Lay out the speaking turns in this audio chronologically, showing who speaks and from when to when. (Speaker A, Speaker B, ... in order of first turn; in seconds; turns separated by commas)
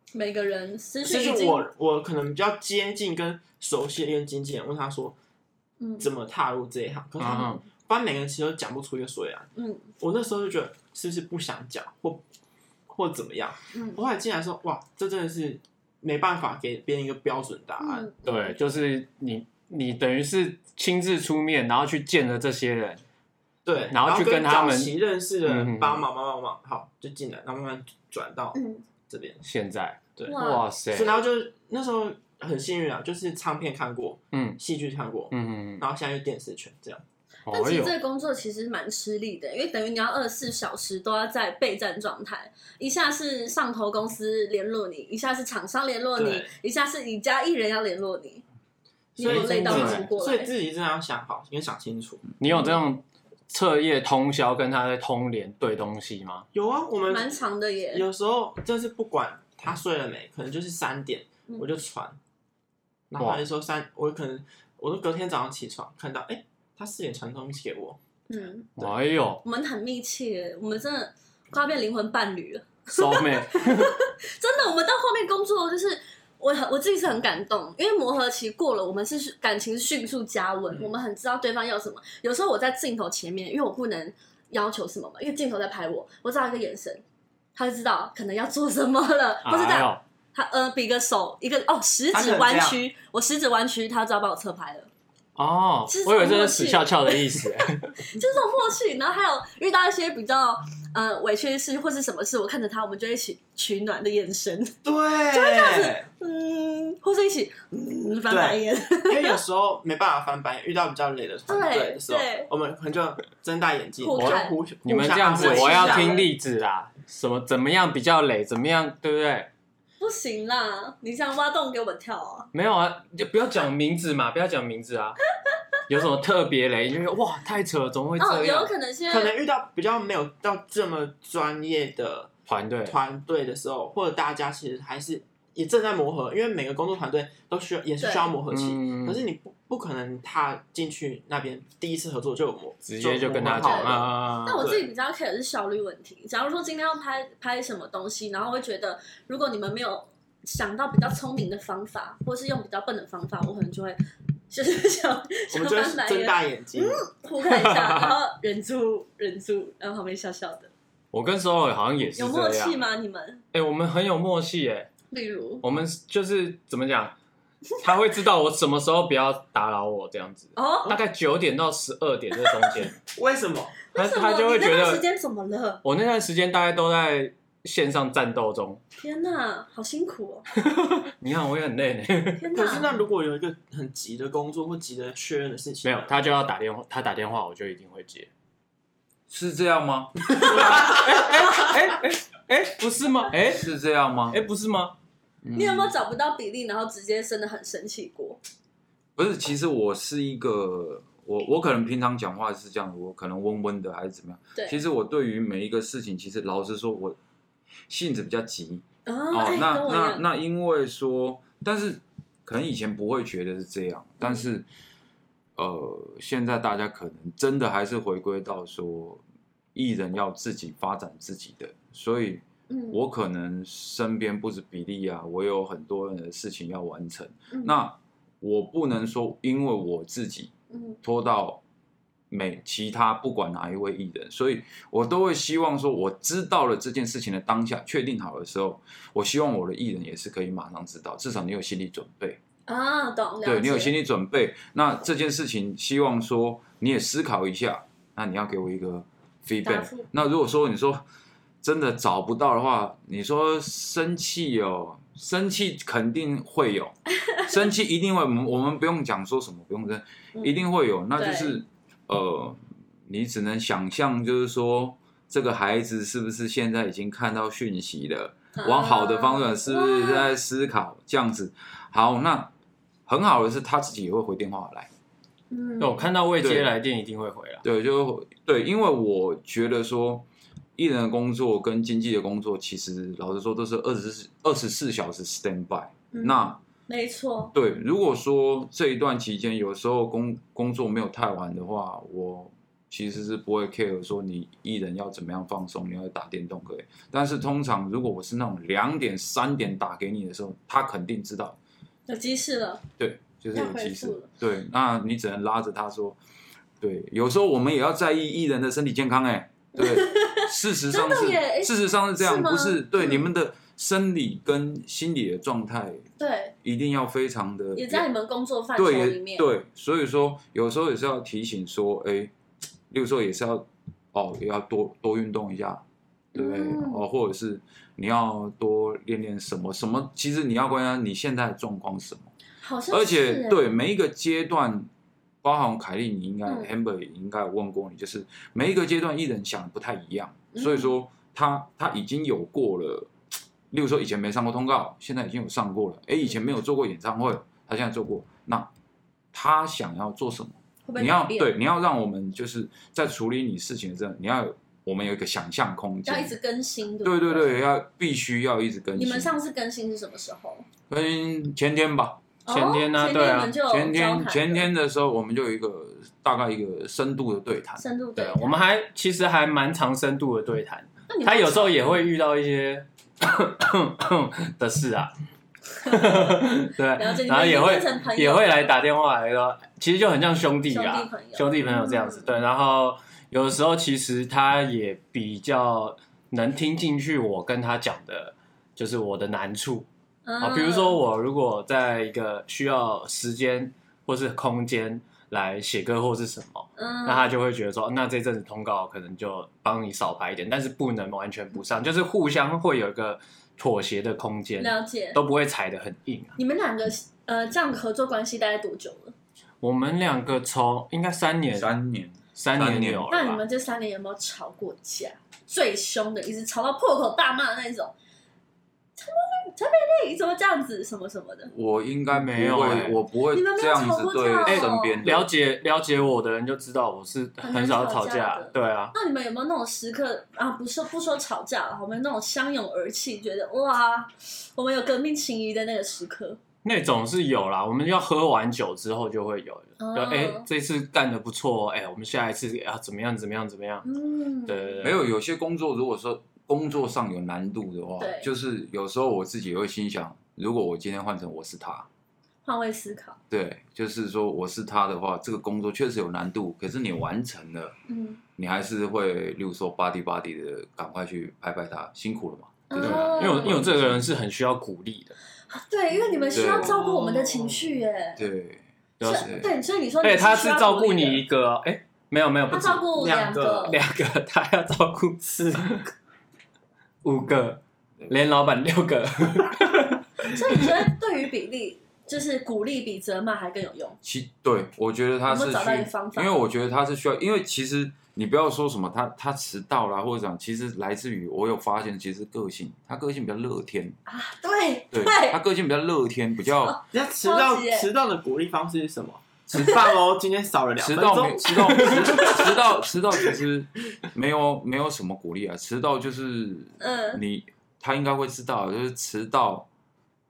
Speaker A: 0.1-1.6, Speaker B: 1.0-5.2, Speaker A: 5.8-6.1, Speaker B: 6.0-12.2, Speaker C: 7.2-7.6, Speaker A: 9.6-9.9, Speaker B: 12.9-18.1, Speaker A: 13.7-14.0, Speaker A: 17.8-18.5, Speaker C: 18.2-23.0, Speaker B: 23.6-28.6, Speaker C: 23.9-26.1, Speaker A: 28.5-28.8, Speaker B: 29.1-29.4, Speaker C: 29.4-31.2, Speaker A: 30.3-30.6, Speaker B: 30.9-37.0, Speaker C: 34.3-34.6, Speaker C: 35.3-35.9, Speaker C: 37.5-37.9, Speaker A: 37.5-48.4, Speaker B: 46.2-46.5, Speaker A: 49.2-50.5, Speaker B: 49.2-52.3, Speaker C: 49.2-50.1, Speaker C: 52.4-56.5, Speaker B: 56.5-57.3, Speaker A: 57.1-58.0, Speaker B: 57.9-62.2, Speaker B: 63.1-68.0, Speaker A: 68.3-68.8, Speaker C: 68.8-69.4, Speaker A: 69.4-87.0, Speaker C: 72.9-74.0, Speaker A: 87.6-94.9, Speaker C: 89.5-90.0, Speaker B: 92.1-92.8, Speaker C: 95.4-97.9, Speaker A: 95.9-97.5, Speaker A: 98.0-104.8, Speaker B: 104.8-106.1, Speaker A: 105.3-109.4, Speaker B: 108.3-116.3, Speaker A: 111.5-112.5, Speaker A: 114.0-114.6, Speaker C: 114.2-119.5, Speaker A: 115.4-116.3, Speaker A: 120.0-122.5, Speaker C: 122.5-125.2, Speaker C: 125.9-128.7, Speaker A: 128.2-129.3, Speaker B: 129.1-132.3, Speaker C: 132.5-133.0, Speaker B: 132.9-144.8, Speaker A: 138.0-138.3, Speaker C: 138.5-139.2, Speaker C: 142.8-144.7, Speaker A: 143.6-154.0, Speaker A: 154.5-160.7, Speaker B: 155.5-157.0, Speaker C: 157.5-158.1, Speaker C: 161.1-162.8, Speaker A: 162.2-163.4, Speaker C: 163.5-164.9, Speaker A: 165.1-165.6, Speaker C: 165.6-167.2, Speaker C: 167.8-173.0, Speaker A: 170.6-171.0, Speaker B: 173.1-173.8, Speaker A: 173.9-175.8, Speaker C: 173.9-175.0, Speaker C: 175.8-178.8, Speaker A: 179.0-180.4, Speaker C: 180.6-182.5, Speaker A: 182.4-183.0, Speaker B: 182.5-186.1, Speaker C: 185.8-188.3, Speaker D: 189.3-190.9, Speaker A: 190.4-190.8, Speaker C: 190.5-193.7, Speaker D: 193.4-194.4, Speaker C: 194.3-194.9, Speaker D: 195.4-195.9, Speaker A: 195.5-198.4, Speaker D: 199.2-207.2, Speaker D: 207.9-214.7, Speaker A: 209.1-210.2, Speaker D: 215.6-219.2, Speaker D: 219.8-231.6, Speaker A: 222.7-223.0, Speaker A: 227.5-227.8, Speaker A: 230.7-231.0, Speaker D: 232.3-242.4, Speaker A: 242.7-243.9, Speaker D: 243.4-251.0, Speaker A: 249.6-250.1, Speaker D: 251.6-272.5, Speaker A: 260.4-260.6, Speaker A: 261.2-261.6, Speaker A: 268.6-270.3, Speaker D: 273.1-274.9, Speaker A: 275.5-276.1, Speaker C: 275.8-277.6, Speaker D: 276.4-276.7, Speaker D: 277.6-286.6, Speaker A: 286.1-287.5, Speaker D: 287.5-301.6, Speaker A: 302.1-302.8, Speaker D: 303.0-306.2, Speaker A: 303.5-304.3, Speaker D: 306.8-316.1, Speaker A: 309.8-313.3, Speaker A: 316.2-316.5, Speaker D: 316.6-318.1, Speaker A: 317.8-319.5, Speaker D: 318.8-322.3, Speaker D: 322.9-325.8, Speaker D: 326.3-332.3, Speaker A: 326.4-327.0, Speaker A: 332.6-333.6, Speaker D: 332.9-334.9, Speaker D: 335.4-343.1, Speaker A: 340.5-340.9, Speaker D: 343.7-348.7, Speaker D: 349.3-356.4, Speaker A: 350.9-351.5, Speaker A: 356.1-357.5, Speaker D: 357.0-359.3, Speaker A: 358.9-360.6, Speaker D: 360.9-362.2, Speaker A: 362.5-364.7, Speaker C: 362.5-363.6, Speaker D: 363.7-367.8, Speaker A: 367.8-368.6, Speaker C: 368.2-375.1, Speaker A: 371.1-371.9, Speaker C: 375.8-389.9, Speaker A: 375.9-376.2, Speaker A: 377.0-378.7, Speaker A: 380.7-382.3, Speaker A: 390.3-391.0, Speaker C: 390.4-406.4, Speaker A: 396.8-397.3, Speaker A: 404.6-405.2, Speaker A: 406.4-409.1, Speaker C: 409.6-411.7, Speaker D: 411.5-413.1, Speaker C: 412.4-413.4, Speaker A: 413.1-417.9, Speaker A: 419.0-421.5, Speaker D: 421.5-425.3, Speaker C: 422.1-423.0, Speaker A: 423.3-425.0, Speaker C: 424.5-428.9, Speaker A: 427.4-436.4, Speaker C: 436.6-443.9, Speaker A: 439.8-440.5, Speaker A: 443.8-444.8, Speaker C: 444.5-445.0, Speaker D: 444.8-451.9, Speaker A: 448.0-448.3, Speaker A: 452.4-453.2, Speaker D: 453.3-457.8, Speaker A: 457.9-458.2, Speaker D: 458.4-464.1, Speaker A: 462.7-463.6, Speaker C: 462.8-465.2, Speaker A: 465.5-468.2, Speaker B: 466.2-467.8, Speaker D: 466.3-466.9, Speaker D: 468.2-469.5, Speaker C: 469.0-469.5, Speaker A: 469.0-471.2, Speaker C: 470.0-472.9, Speaker A: 472.5-473.8, Speaker B: 472.9-473.8, Speaker C: 473.7-475.8, Speaker B: 475.2-475.9, Speaker C: 477.0-480.6, Speaker A: 480.2-484.0, Speaker D: 484.0-494.0, Speaker A: 485.3-486.4, Speaker A: 494.1-495.4, Speaker D: 494.9-496.8, Speaker A: 496.6-497.9, Speaker B: 496.9-502.6, Speaker D: 500.8-509.7, Speaker A: 506.8-507.2